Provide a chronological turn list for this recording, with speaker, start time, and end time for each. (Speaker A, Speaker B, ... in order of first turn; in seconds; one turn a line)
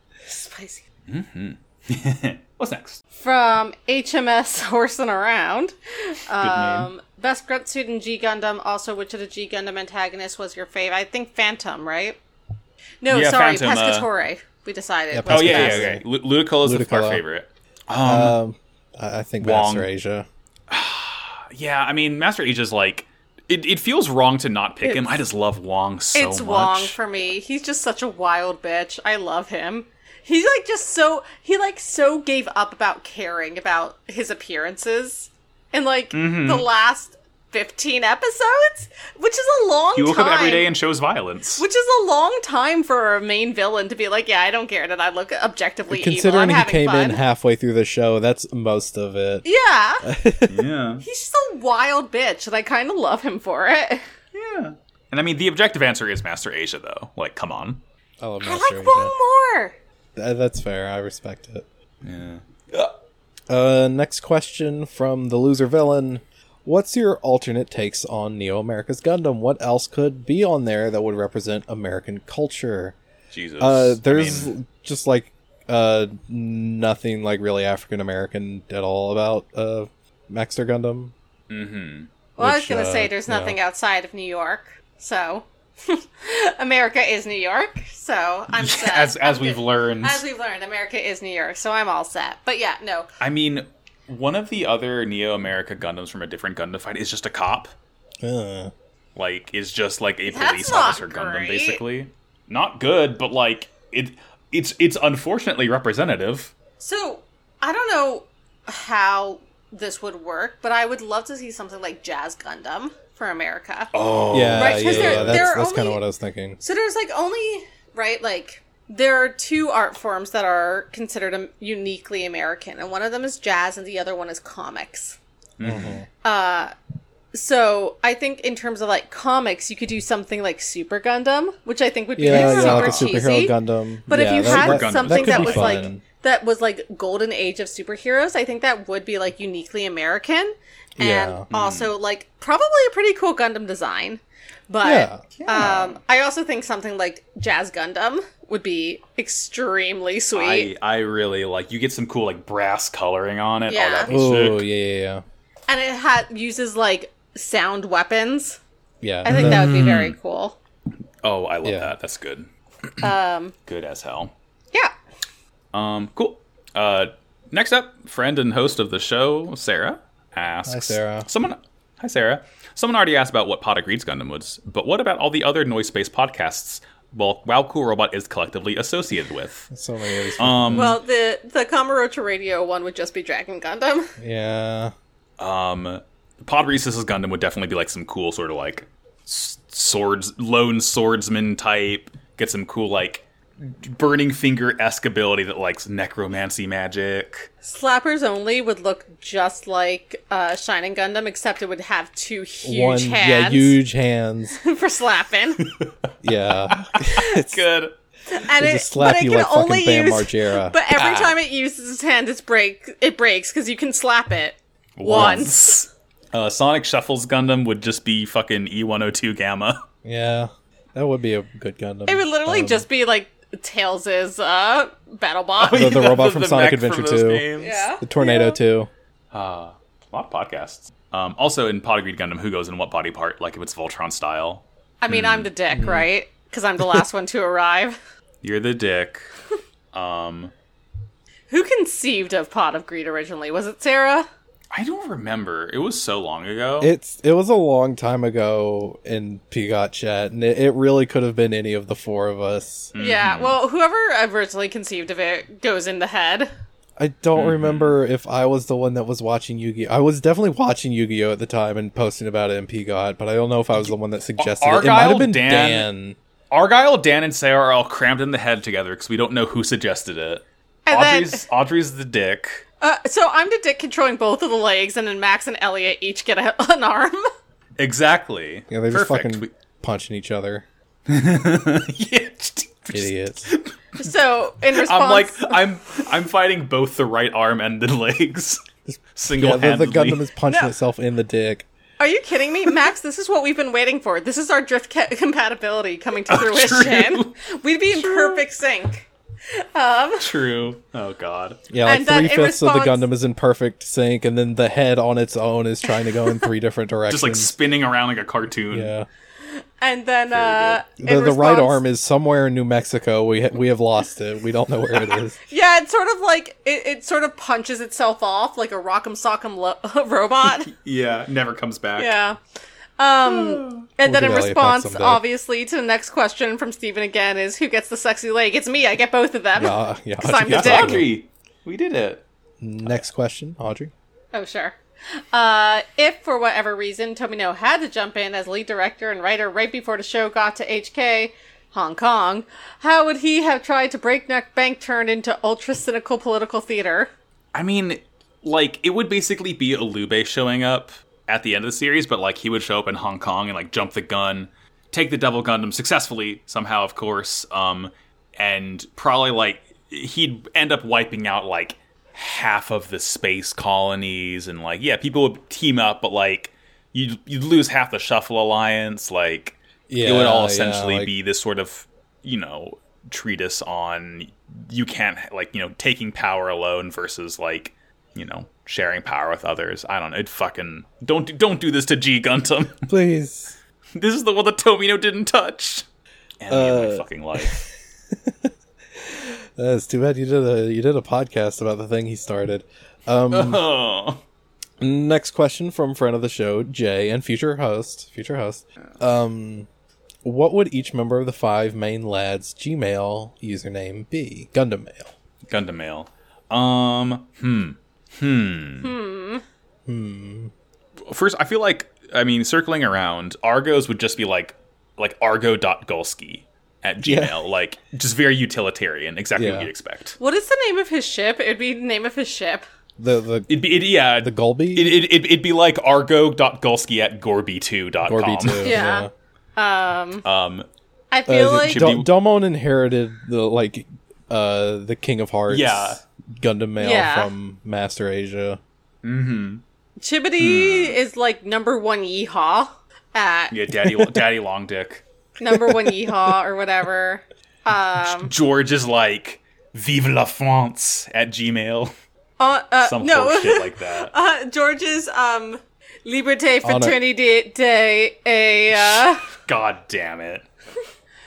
Speaker A: 0.3-0.8
Speaker B: 1.1-3.0
Speaker A: 3.2-12.2
Speaker B: 6.4-6.9
Speaker A: 13.0-15.9
Speaker B: 13.1-14.1
Speaker C: 15.1-16.0
Speaker B: 15.3-18.4
Speaker C: 16.6-17.2
Speaker C: 18.0-20.3
Speaker B: 19.4-19.9
Speaker B: 20.7-27.0
Speaker A: 24.8-25.2
Speaker A: 26.1-40.7
Speaker B: 36.1-36.7
Speaker B: 40.0-41.6
Speaker A: 41.6-47.2
Speaker C: 45.9-49.5
Speaker A: 49.4-50.1
Speaker C: 50.0-50.7
Speaker B: 50.5-51.0
Speaker A: 51.0-54.0
Speaker B: 54.3-57.8
Speaker C: 58.2-59.1
Speaker A: 58.4-59.8
Speaker C: 60.2-61.7
Speaker B: 62.0-62.9
Speaker C: 63.5-73.0
Speaker B: 73.3-74.5
Speaker C: 73.6-81.1
Speaker B: 81.5-82.1
Speaker A: 82.4-93.1
Speaker C: 82.4-83.6
Speaker B: 88.5-90.2
Speaker B: 93.2-97.7
Speaker C: 98.2-98.7
Speaker B: 99.2-106.5
Speaker A: 100.3-101.8
Speaker A: 106.8-113.9
Speaker B: 113.9-115.5
Speaker C: 114.3-116.6
Speaker A: 114.5-116.0
Speaker A: 116.6-125.2
Speaker B: 125.6-126.0
Speaker C: 125.6-126.1
Speaker A: 126.2-126.7
Speaker A: 127.3-133.6
Speaker C: 132.2-136.0
Speaker B: 132.3-133.2
Speaker A: 134.1-150.7
Speaker B: 134.4-135.8
Speaker C: 141.0-141.5
Speaker B: 141.5-141.9
Speaker C: 144.8-145.8
Speaker B: 145.5-145.8
Speaker B: 150.3-154.7
Speaker A: 153.7-154.2
Speaker C: 154.1-155.2
Speaker A: 155.7-158.6
Speaker C: 159.0-159.7
Speaker A: 159.2-160.6
Speaker B: 159.3-160.2
Speaker B: 161.2-163.1
Speaker C: 161.6-161.9
Speaker A: 163.0-163.5
Speaker B: 163.7-164.3
Speaker B: 165.7-179.7
Speaker C: 170.7-171.3
Speaker C: 179.7-181.0
Speaker B: 180.4-181.0
Speaker A: 180.7-184.1
Speaker C: 184.2-184.9
Speaker B: 185.4-197.5
Speaker A: 197.6-203.8
Speaker C: 202.6-204.6
Speaker A: 204.6-205.7
Speaker B: 205.6-206.1
Speaker C: 206.2-207.6
Speaker B: 206.7-207.9
Speaker A: 208.3-215.9
Speaker C: 208.6-210.8
Speaker B: 210.9-211.4
Speaker B: 215.0-219.8
Speaker C: 215.1-215.5
Speaker C: 220.0-222.8
Speaker A: 222.1-226.0
Speaker B: 225.6-227.8
Speaker C: 225.7-227.5
Speaker A: 227.6-228.6
Speaker C: 228.0-228.9
Speaker B: 229.3-235.5
Speaker A: 235.0-238.0
Speaker C: 235.7-236.1
Speaker B: 238.4-239.3
Speaker B: 239.9-240.5
Speaker A: 241.5-244.3
Speaker B: 244.7-246.9
Speaker C: 246.8-252.9
Speaker B: 252.9-253.6
Speaker A: 253.0-256.5
Speaker C: 257.0-266.2
Speaker B: 257.4-257.9
Speaker B: 263.8-265.9
Speaker B: 266.5-272.6
Speaker A: 270.9-271.4
Speaker A: 272.8-277.3
Speaker B: 277.8-279.5
Speaker C: 278.7-280.6
Speaker B: 281.1-284.1
Speaker C: 282.9-283.5
Speaker A: 284.0-285.6
Speaker B: 284.7-288.6
Speaker C: 288.9-291.7
Speaker B: 289.2-290.2
Speaker A: 292.0-300.3
Speaker B: 296.3-297.3
Speaker B: 298.0-298.4
Speaker B: 300.2-301.6
Speaker C: 301.7-307.5
Speaker A: 301.9-303.0
Speaker B: 307.1-308.9
Speaker C: 308.7-309.1
Speaker A: 309.5-311.8
Speaker B: 310.3-310.8
Speaker C: 311.0-315.4
Speaker A: 315.5-320.7
Speaker B: 320.6-322.1
Speaker A: 322.0-322.4
Speaker A: 323.0-331.1
Speaker B: 323.2-323.9
Speaker C: 324.0-325.2
Speaker C: 329.6-331.1
Speaker B: 330.5-332.2
Speaker C: 332.6-333.9
Speaker A: 334.3-347.1
Speaker B: 347.5-382.9
Speaker C: 369.9-371.1
Speaker C: 382.9-383.6
Speaker B: 383.9-385.9
Speaker B: 386.4-387.6
Speaker C: 386.5-393.6
Speaker B: 393.3-394.2
Speaker C: 394.8-399.7
Speaker C: 400.2-405.1
Speaker B: 405.5-408.9
Speaker A: 408.8-409.4
Speaker C: 409.9-410.5
Speaker B: 411.1-420.2
Speaker C: 417.0-417.4
Speaker C: 419.4-419.7
Speaker A: 420.2-422.6
Speaker C: 423.0-425.0
Speaker B: 423.5-428.8
Speaker C: 428.1-429.1
Speaker A: 428.6-430.3
Speaker B: 430.2-430.7
Speaker A: 431.1-431.9
Speaker C: 431.3-438.6
Speaker B: 431.6-432.1
Speaker B: 435.5-436.0
Speaker A: 436.8-437.3
Speaker B: 439.0-439.6
Speaker A: 440.0-443.6
Speaker B: 440.4-441.0
Speaker B: 443.5-445.0
Speaker C: 443.9-444.2
Speaker A: 445.4-448.3
Speaker C: 445.5-446.4
Speaker B: 448.1-451.9
Speaker A: 452.4-459.3
Speaker B: 452.8-454.1
Speaker C: 456.6-457.0
Speaker B: 458.7-460.5